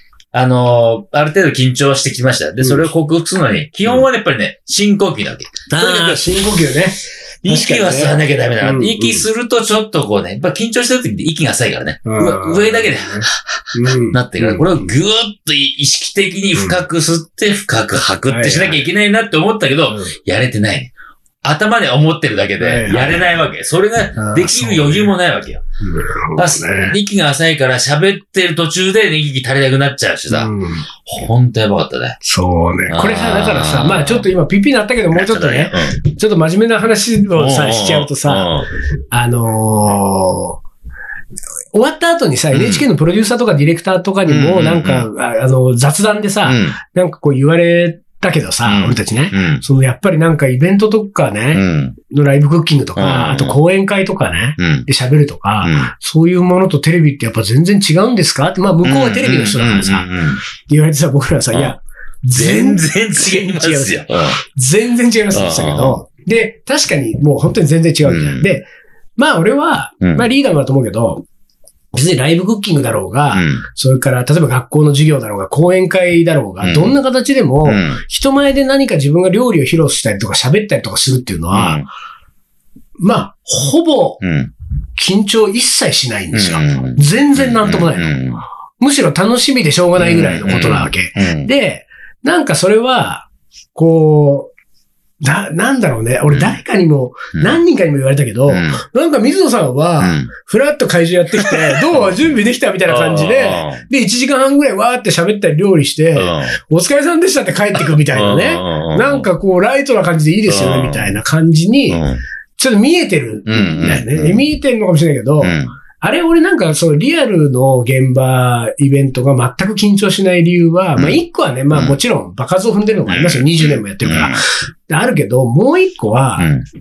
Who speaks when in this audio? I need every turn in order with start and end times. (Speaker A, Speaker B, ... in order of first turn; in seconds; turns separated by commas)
Speaker A: 0.3-6.4, Speaker B: 5.8-9.2, Speaker A: 7.4-20.9, Speaker B: 12.1-14.8, Speaker B: 16.5-16.8, Speaker B: 18.2-18.8, Speaker A: 21.4-25.6, Speaker B: 22.6-23.3, Speaker B: 24.2-25.1, Speaker B: 25.8-26.9, Speaker A: 26.4-32.2, Speaker B: 30.3-30.9, Speaker B: 32.2-38.5, Speaker A: 32.9-34.3, Speaker A: 35.1-36.0, Speaker A: 37.3-38.7, Speaker B: 39.1-40.6, Speaker B: 41.7-71.2, Speaker A: 42.5-42.8, Speaker A: 44.3-45.1, Speaker A: 46.4-46.8, Speaker A: 48.6-49.6, Speaker A: 51.5-52.0, Speaker A: 53.0-53.6, Speaker A: 54.6-54.9, Speaker A: 55.6-55.9, Speaker A: 58.8-60.4, Speaker A: 62.3-64.4, Speaker A: 65.3-66.0, Speaker A: 68.0-68.5, Speaker B: 71.9-81.8, Speaker A: 73.3-73.6, Speaker A: 76.6-77.0, Speaker A: 77.6-78.0, Speaker A: 81.5-81.8, Speaker B: 83.0-84.2, Speaker A: 84.2-84.5, Speaker B: 85.0-88.2, Speaker A: 86.3-88.4, Speaker B: 88.8-94.5, Speaker A: 90.0-91.5, Speaker B: 95.2-112.0, Speaker A: 96.3-96.6, Speaker A: 97.3-97.6, Speaker A: 98.5-98.8, Speaker A: 100.0-100.3, Speaker A: 101.4-102.1, Speaker A: 102.9-103.8, Speaker A: 106.2-106.5, Speaker A: 108.1-109.3, Speaker A: 110.5-111.2, Speaker A: 111.9-112.2, Speaker B: 112.6-126.5, Speaker A: 113.5-114.4, Speaker A: 115.4-115.7, Speaker A: 121.7-122.0, Speaker A: 123.1-124.4, Speaker A: 126.4-126.7